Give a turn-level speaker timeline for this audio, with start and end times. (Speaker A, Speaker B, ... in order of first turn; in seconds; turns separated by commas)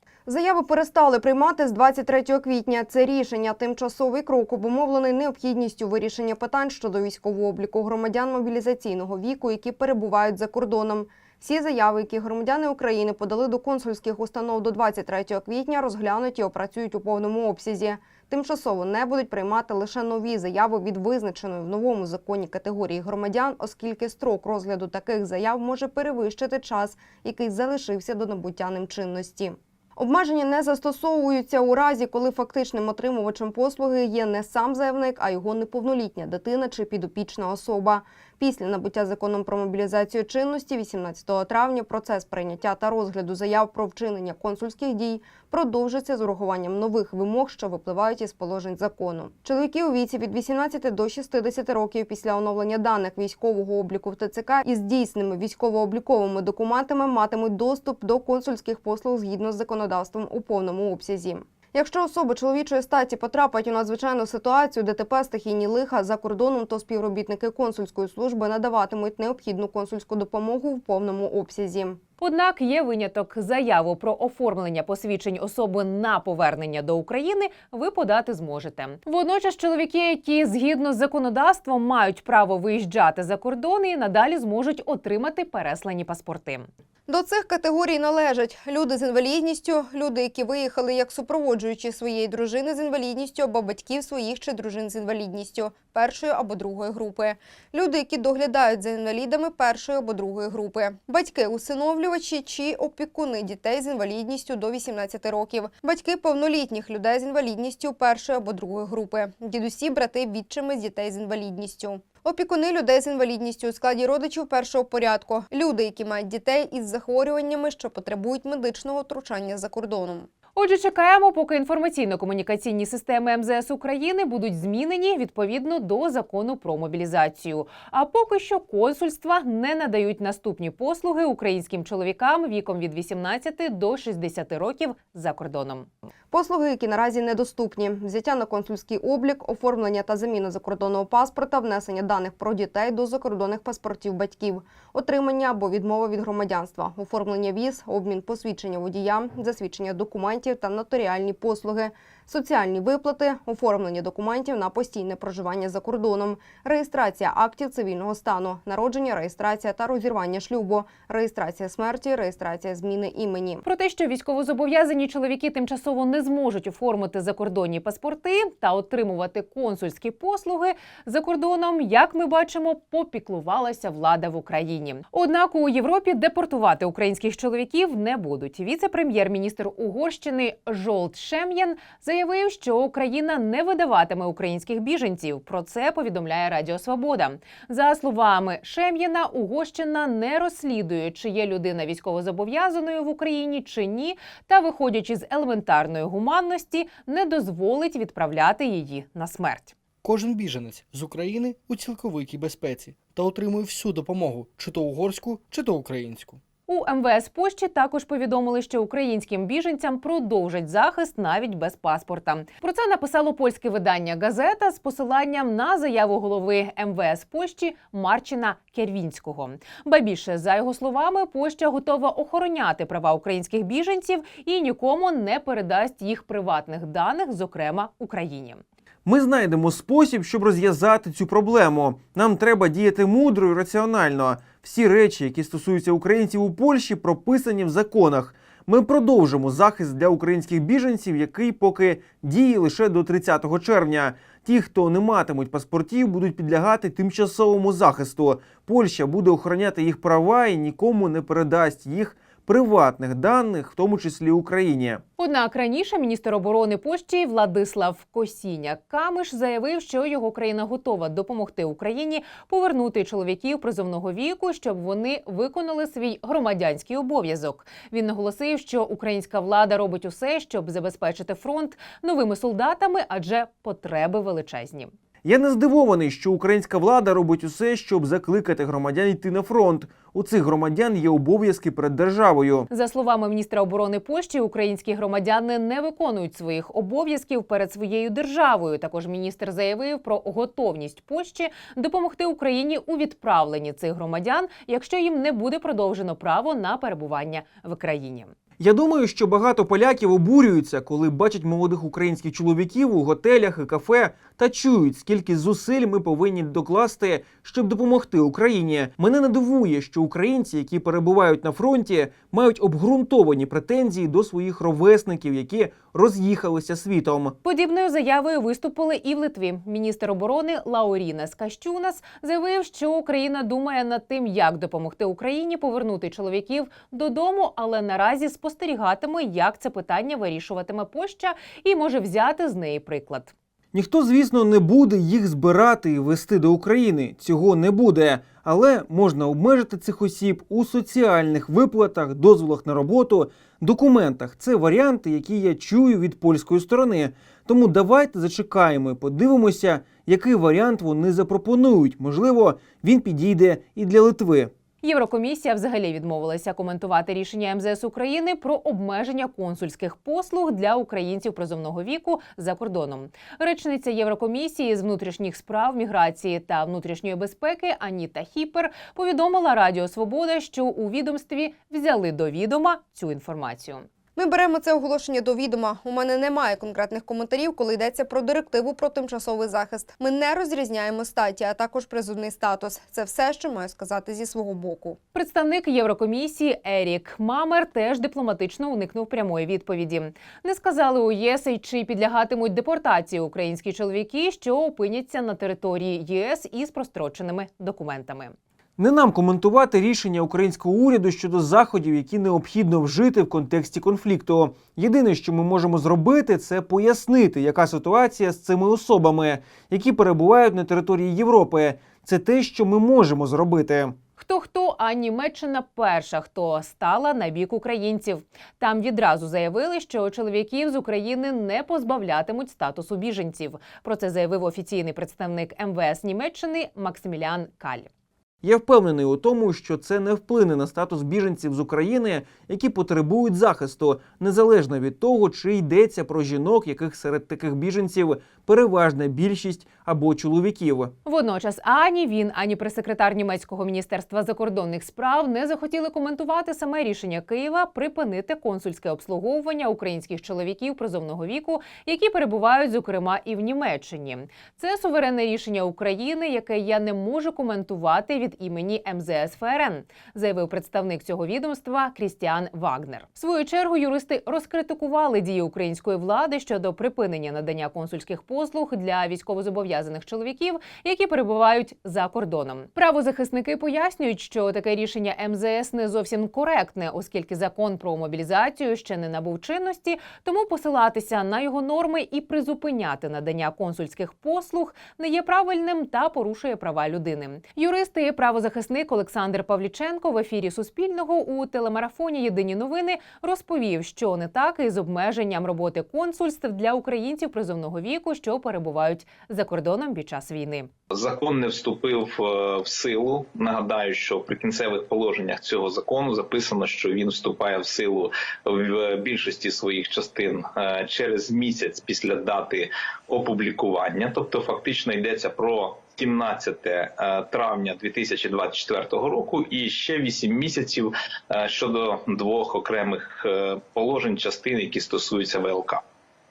Speaker A: 0.3-72.0, Speaker B: 72.2-86.7, Speaker A: 87.1-120.3, Speaker B: 120.5-135.9, Speaker A: 136.3-163.6, Speaker B: 163.6-199.7, Speaker C: 200.0-206.4, Speaker B: 206.7-228.6, Speaker D: 229.0-255.0, Speaker B: 255.2-274.9, Speaker D: 275.2-282.7, Speaker B: 282.7-298.3, Speaker D: 298.6-317.4, Speaker B: 317.4-333.3, Speaker D: 333.7-354.5, Speaker B: 354.8-373.8, Speaker A: 374.1-385.0, Speaker B: 385.1-398.3, Speaker D: 398.8-413.9, Speaker B: 414.2-427.9, Speaker D: 428.4-440.9, Speaker B: 441.0-500.7, Speaker E: 500.9-525.8